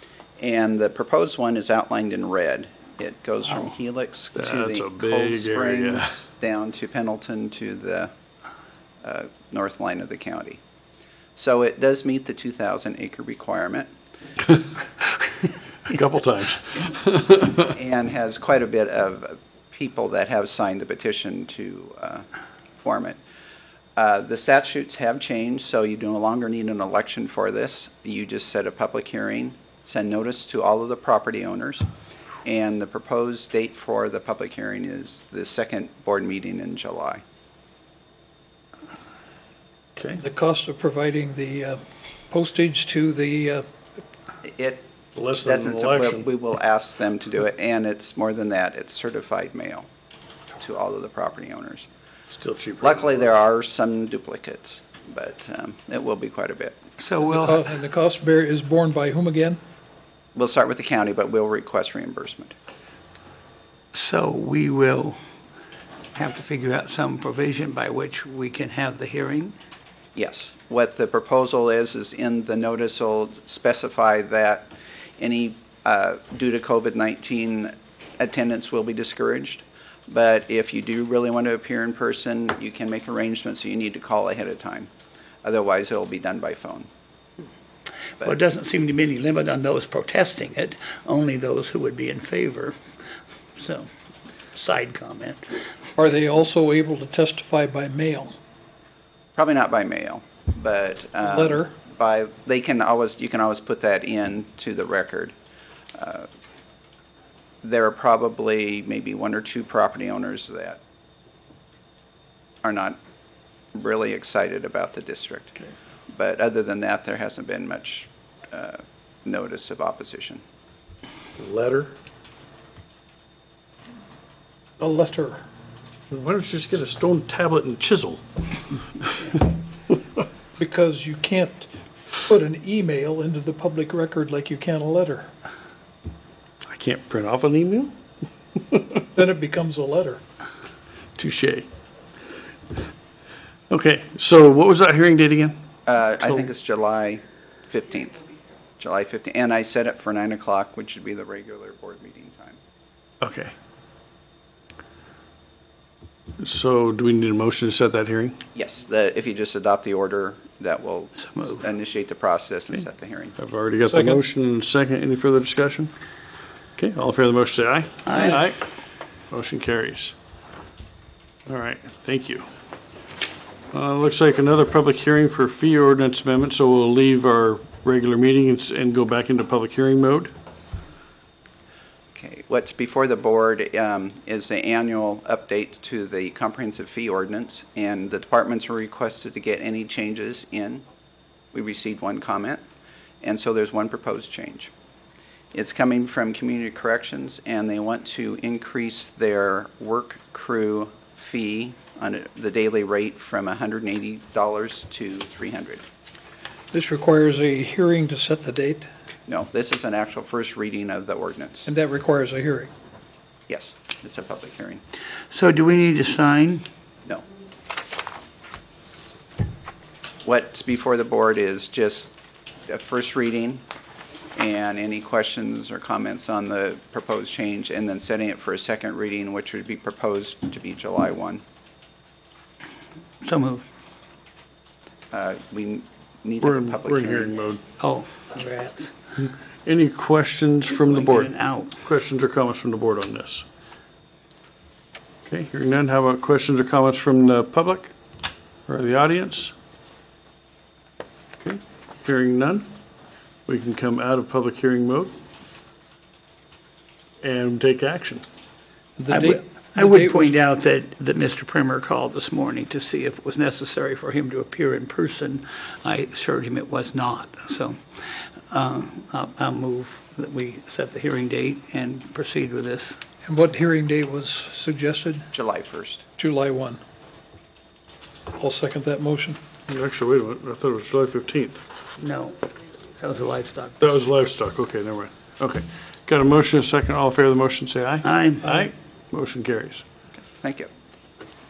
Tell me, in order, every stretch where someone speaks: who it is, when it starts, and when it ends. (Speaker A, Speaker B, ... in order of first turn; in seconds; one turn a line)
Speaker A: 0.4-8.1
Speaker B: 4.3-6.2
Speaker A: 9.0-10.6
Speaker A: 11.4-13.9
Speaker B: 14.5-15.3
Speaker B: 15.8-17.7
Speaker A: 17.6-22.3
Speaker A: 22.8-23.2
Speaker A: 24.0-31.9
Speaker A: 32.4-37.2
Speaker B: 40.0-40.2
Speaker C: 40.2-43.6
Speaker A: 44.5-44.9
Speaker B: 45.1-46.3
Speaker A: 45.4-49.9
Speaker A: 50.6-51.9
Speaker B: 52.3-53.4
Speaker A: 52.8-56.8
Speaker D: 57.0-57.6
Speaker C: 57.2-59.6
Speaker A: 60.4-62.5
Speaker D: 63.9-65.2
Speaker D: 66.2-69.5
Speaker A: 70.2-84.9
Speaker A: 85.4-86.9
Speaker D: 88.2-92.8
Speaker D: 93.6-93.9
Speaker D: 94.5-95.6
Speaker C: 96.0-98.3
Speaker A: 99.4-105.3
Speaker C: 101.2-101.7
Speaker A: 106.0-106.3
Speaker A: 107.6-110.8
Speaker A: 112.6-113.0
Speaker A: 113.7-115.6
Speaker A: 116.1-120.4
Speaker B: 121.4-121.9
Speaker C: 124.8-125.4
Speaker B: 126.1-129.5
Speaker C: 130.6-135.3
Speaker B: 136.6-137.9
Speaker B: 138.6-139.1
Speaker C: 139.2-140.2
Speaker B: 141.2-141.7
Speaker B: 143.7-145.6
Speaker A: 145.9-148.2
Speaker A: 148.8-152.6
Speaker B: 153.2-153.5
Speaker B: 156.4-158.4
Speaker A: 158.5-163.4
Speaker D: 161.3-161.6
Speaker B: 163.4-165.9
Speaker C: 163.9-164.2
Speaker B: 166.8-168.7
Speaker D: 168.1-168.5
Speaker B: 169.3-170.2
Speaker B: 171.5-172.5
Speaker B: 173.7-180.3
Speaker A: 182.2-190.8
Speaker A: 191.5-192.6
Speaker A: 193.2-194.7
Speaker A: 195.5-205.8
Speaker C: 206.7-208.9
Speaker A: 209.3-211.7
Speaker C: 211.7-212.7
Speaker A: 213.5-214.8
Speaker D: 215.3-216.7
Speaker A: 220.2-222.2
Speaker A: 222.7-223.6
Speaker A: 224.3-231.4
Speaker D: 233.2-233.6
Speaker A: 235.1-237.4
Speaker B: 236.4-237.6
Speaker D: 237.8-238.9
Speaker B: 239.2-243.5
Speaker D: 240.7-241.8
Speaker B: 245.3-247.9
Speaker B: 248.7-249.5
Speaker B: 251.4-252.7
Speaker B: 253.5-255.2
Speaker B: 257.2-258.2
Speaker C: 259.0-260.3
Speaker D: 259.1-267.8
Speaker D: 268.5-273.0
Speaker C: 273.2-275.3
Speaker A: 275.3-276.0
Speaker C: 276.2-276.8
Speaker C: 278.4-279.4
Speaker B: 279.7-281.6
Speaker D: 282.0-283.9
Speaker B: 283.8-289.9
Speaker D: 288.0-288.7
Speaker A: 290.3-290.7